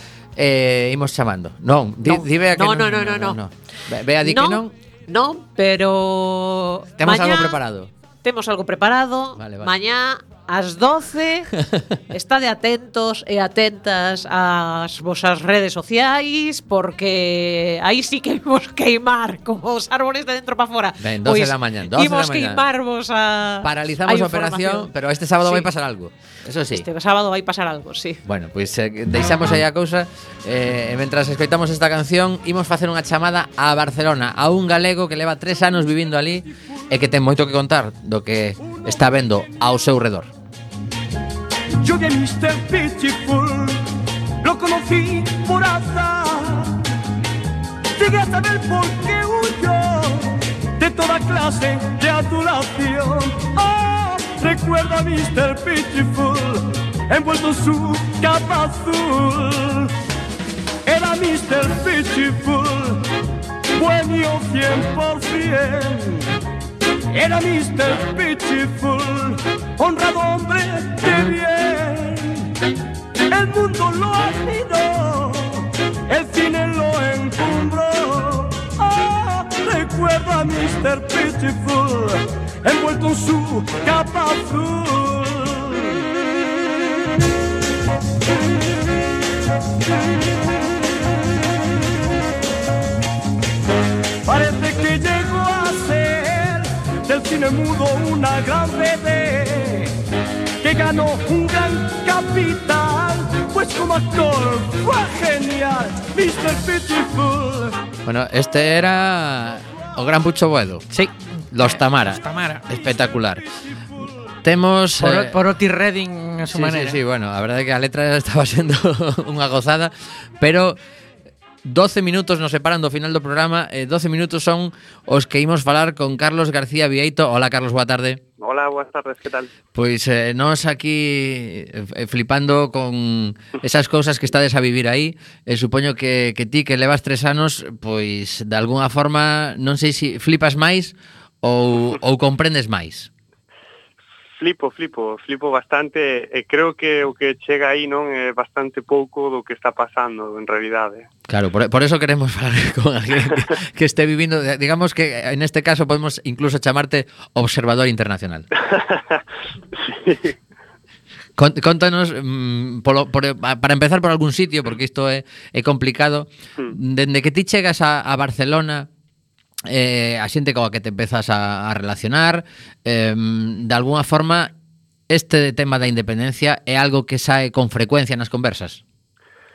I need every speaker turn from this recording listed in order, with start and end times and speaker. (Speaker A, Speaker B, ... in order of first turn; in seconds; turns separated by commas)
Speaker A: 0.4-4.7, Speaker B: 2.0-3.4, Speaker B: 4.2-7.6, Speaker A: 7.0-7.9, Speaker B: 8.2-11.5, Speaker A: 9.4-9.7, Speaker A: 11.5-12.0, Speaker B: 12.1-24.9, Speaker A: 21.0-22.6, Speaker A: 23.6-26.9, Speaker B: 25.4-25.7, Speaker B: 26.7-28.2, Speaker A: 28.2-40.3, Speaker C: 41.8-43.8, Speaker C: 44.4-46.8, Speaker C: 48.0-59.9, Speaker C: 60.9-63.0, Speaker C: 63.8-66.3, Speaker C: 67.1-72.5, Speaker C: 73.3-86.0, Speaker C: 94.3-99.9, Speaker C: 100.6-107.8, Speaker A: 108.1-110.9, Speaker D: 110.9-112.7, Speaker A: 111.5-113.5, Speaker A: 114.4-115.4, Speaker D: 115.0-117.0, Speaker A: 116.5-120.8, Speaker A: 121.6-128.2, Speaker E: 128.4-129.5, Speaker A: 129.7-143.1, Speaker E: 144.4-151.1, Speaker A: 151.3-158.5, Speaker E: 158.7-159.2, Speaker E: 159.8-160.3, Speaker A: 161.4-168.9, Speaker A: 169.7-174.5, Speaker A: 175.1-178.8